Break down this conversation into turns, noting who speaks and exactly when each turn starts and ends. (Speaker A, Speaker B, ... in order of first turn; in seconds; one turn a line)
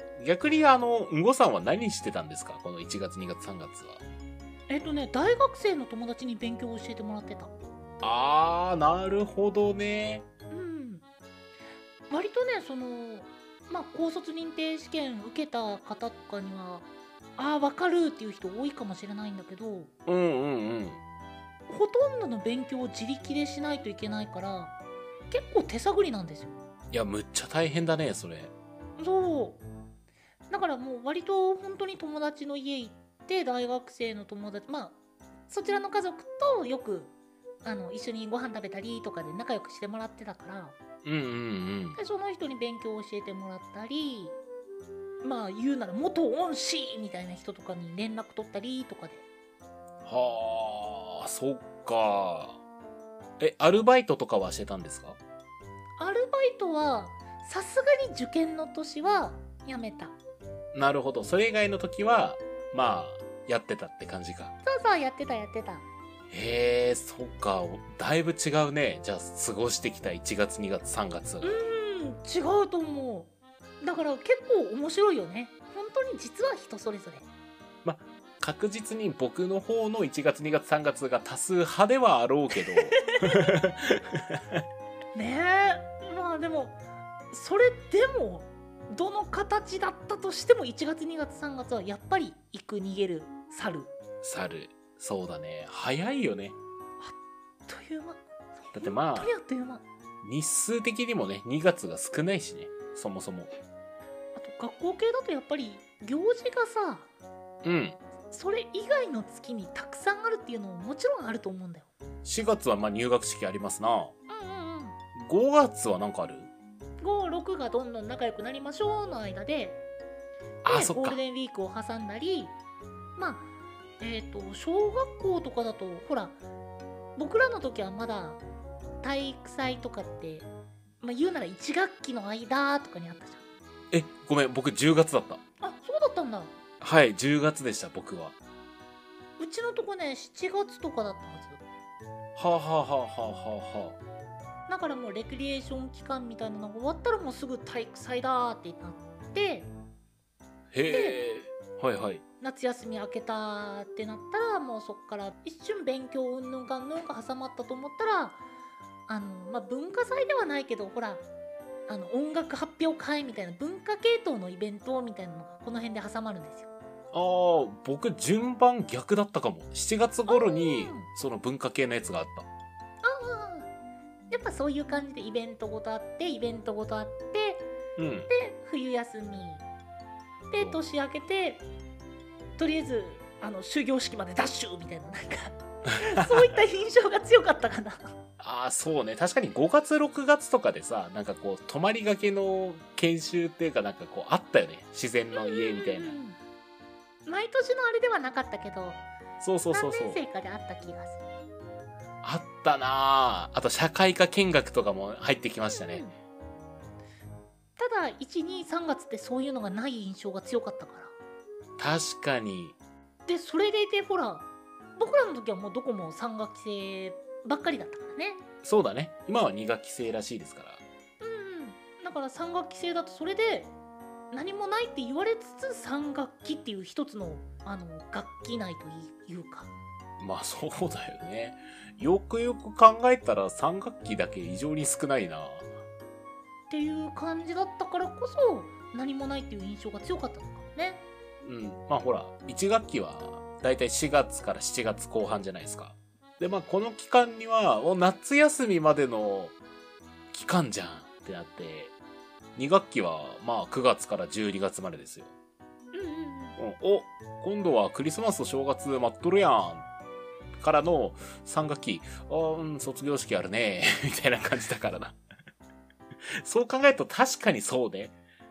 Speaker A: 0.2-4.0
Speaker B: 4.7-7.5
Speaker A: 8.0-10.2
Speaker B: 10.5-11.0
Speaker B: 12.1-19.9
Speaker A: 20.1-21.0
Speaker B: 21.7-24.8
Speaker B: 25.3-26.6
Speaker A: 26.9-28.5
Speaker B: 29.0-29.6
Speaker B: 30.5-35.0
Speaker B: 35.5-37.1
Speaker B: 37.6-40.8
Speaker A: 41.0-42.0
Speaker B: 42.0-44.4
Speaker B: 45.2-49.2
Speaker A: 50.0-52.6
Speaker A: 53.4-55.2
Speaker B: 56.0-60.2
Speaker A: 60.7-64.5
Speaker B: 64.6-65.8
Speaker A: 66.3-71.6
Speaker B: 71.4-77.3
Speaker A: 77.8-84.6
Speaker B: 82.7-83.5
Speaker B: 85.1-86.8
Speaker B: 87.3-93.9
Speaker A: 94.2-96.6
Speaker B: 97.7-99.8
Speaker A: 98.7-99.3
Speaker A: 100.2-103.5
Speaker B: 104.3-107.1
Speaker A: 107.6-108.0
Speaker B: 108.3-111.9
Speaker A: 112.2-114.1
Speaker B: 114.3-115.0
Speaker A: 115.1-116.5
Speaker B: 117.0-119.8
Speaker A: 120.6-121.2
Speaker B: 120.6-122.5
Speaker B: 123.2-123.5
Speaker B: 124.0-126.4
Speaker B: 127.2-128.4
Speaker B: 129.0-130.5
Speaker B: 131.0-133.4
Speaker A: 133.9-135.4
Speaker B: 135.6-136.5
Speaker A: 136.8-138.3
Speaker B: 139.4-141.6
Speaker A: 142.3-144.0
Speaker B: 144.7-149.7
Speaker A: 150.7-152.2
Speaker B: 150.9-151.2
Speaker B: 152.4-158.4
Speaker B: 159.1-161.2
Speaker B: 161.9-166.7
Speaker A: 167.1-172.5
Speaker B: 170.3-171.1
Speaker B: 173.0-173.7
Speaker B: 174.3-177.7
Speaker A: 178.0-178.3
Speaker B: 178.3-179.6
Speaker B: 180.5-181.7
Speaker B: 182.6-188.1
Speaker A: 186.2-186.4
Speaker A: 188.4-196.2
Speaker B: 195.3-196.4
Speaker B: 197.2-199.0
Speaker A: 199.4-200.2
Speaker B: 199.7-201.2
Speaker A: 202.2-206.0
Speaker B: 205.7-206.1
Speaker B: 207.8-211.1
Speaker A: 211.8-212.8
Speaker B: 213.3-218.4
Speaker A: 218.6-220.8
Speaker B: 221.2-223.7
Speaker B: 224.3-229.7
Speaker A: 230.2-235.7
Speaker B: 236.7-241.0
Speaker A: 241.4-249.5
Speaker A: 250.3-251.9
Speaker A: 252.6-255.3
Speaker B: 255.9-256.6
Speaker A: 256.6-259.9
Speaker A: 260.6-265.2
Speaker A: 266.4-268.2